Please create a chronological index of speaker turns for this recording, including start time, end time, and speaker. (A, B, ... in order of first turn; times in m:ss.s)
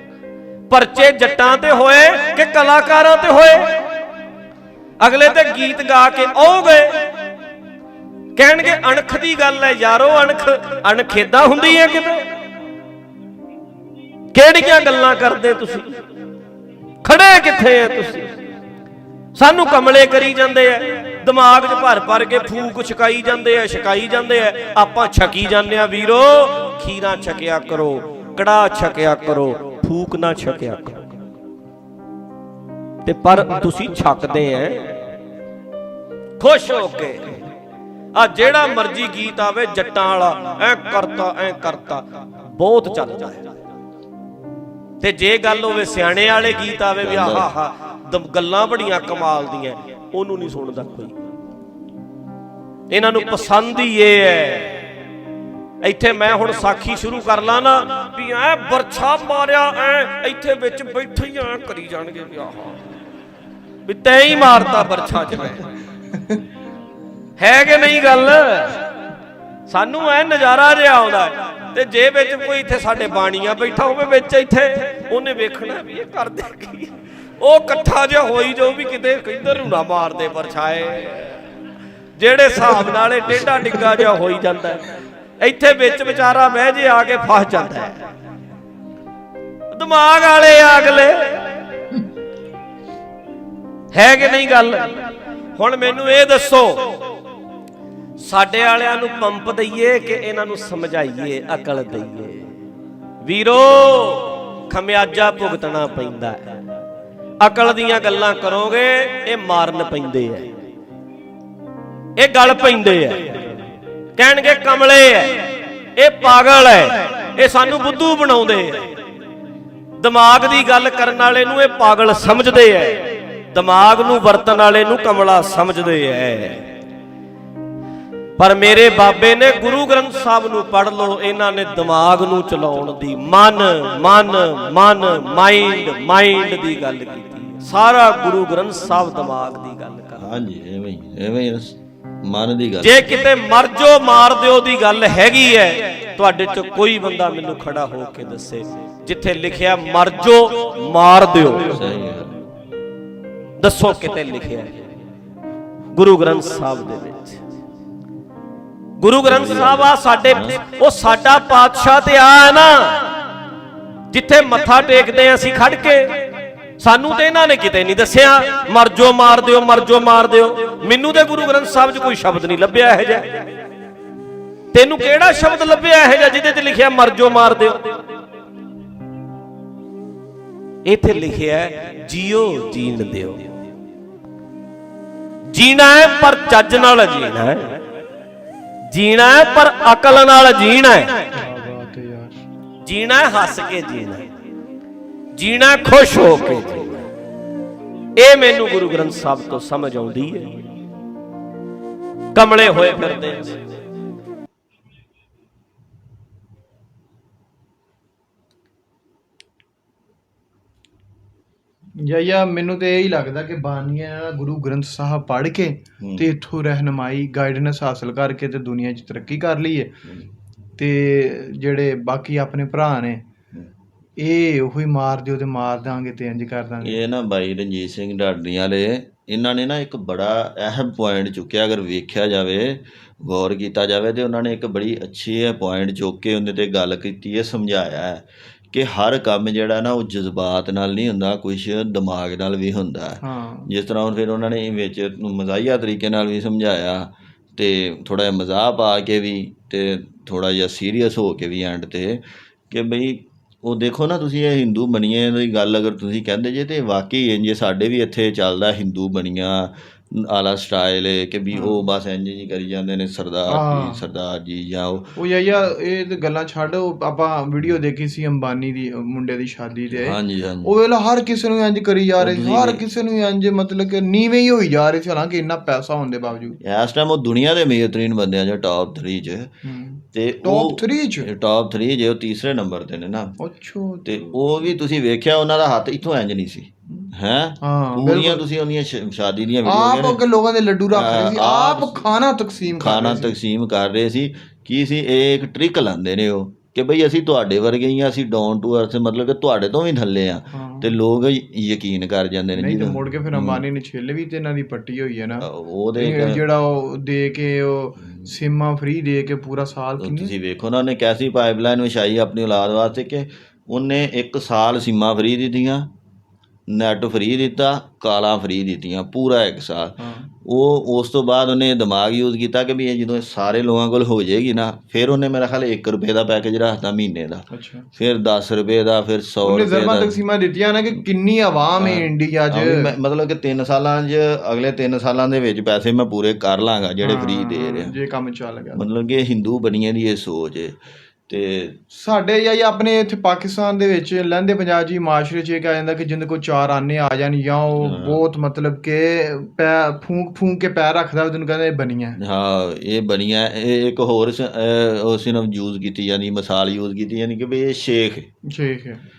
0:00.7-0:03.8 A
0:05.0-0:07.1 A
0:08.4-0:12.3 A
0:14.3-0:15.9 A
0:17.0-0:18.3 A
0:19.4-0:31.1 A
0:33.0-0:35.0 A
0:36.4-0:37.4 A
0:38.2-0:43.4 A
0:45.0-0:51.2 A
0:47.0-0:47.5 B
0:52.9-0:54.8 A
0:55.8-1:02.8 A
1:03.9-1:05.7 A
1:07.4-1:08.8 A
1:09.7-1:21.4 A
1:22.2-1:24.8 A
1:25.4-1:28.0 A
1:29.7-1:31.6 A
1:33.9-1:35.0 A
1:35.6-1:37.0 A
1:38.2-1:42.5 A
1:43.2-1:46.4 A
1:47.4-1:50.5 A
1:52.2-1:53.4 A
1:54.2-1:58.9 A
2:00.0-2:06.6 A
2:08.4-2:20.2 A
2:20.2-2:23.0 B
2:22.8-2:31.8 A
2:31.7-2:32.4 B
2:33.6-2:34.8 A
2:35.9-2:37.4 A
2:39.0-2:43.1 A
2:39.2-2:40.6 B
2:44.1-2:46.3 A
2:46.8-2:53.5 A
2:54.7-2:57.9 A
3:00.8-3:03.6 A
3:05.5-3:07.8 A
3:08.9-3:11.2 A
3:11.3-3:12.4 C
3:12.8-3:14.3 A
3:15.4-3:17.1 A
3:18.2-3:20.6 A
3:22.3-3:23.6 A
3:32.0-3:40.0 C
3:36.0-3:36.3 B
3:40.8-3:43.2 C
3:44.2-3:47.0 C
3:46.8-4:25.1 B
4:03.2-4:03.7 C
4:21.5-4:21.8 C
4:23.5-4:24.0 C
4:25.2-4:36.6 C
4:29.9-4:30.7 B
4:32.2-4:32.8 B
4:36.6-4:39.5 B
4:39.6-4:41.3 C
4:40.1-4:43.4 B
4:43.4-4:44.3 C
4:44.1-4:50.2 B
4:47.6-4:48.4 C
4:49.6-4:53.4 C
4:50.9-4:52.1 B
4:52.8-5:03.6 B
5:00.5-5:01.0 C
5:02.6-5:10.3 C
5:05.4-5:06.4 B
5:10.0-5:15.9 B
5:16.7-5:30.2 B
5:20.0-5:20.3 C
5:27.5-5:27.9 C
5:29.4-5:32.9 C
5:31.8-5:38.0 B
5:37.0-5:38.8 C
5:38.8-5:41.8 B
5:41.9-5:52.2 C
5:47.8-5:48.2 B
5:52.2-5:58.3 B
5:58.5-5:59.0 C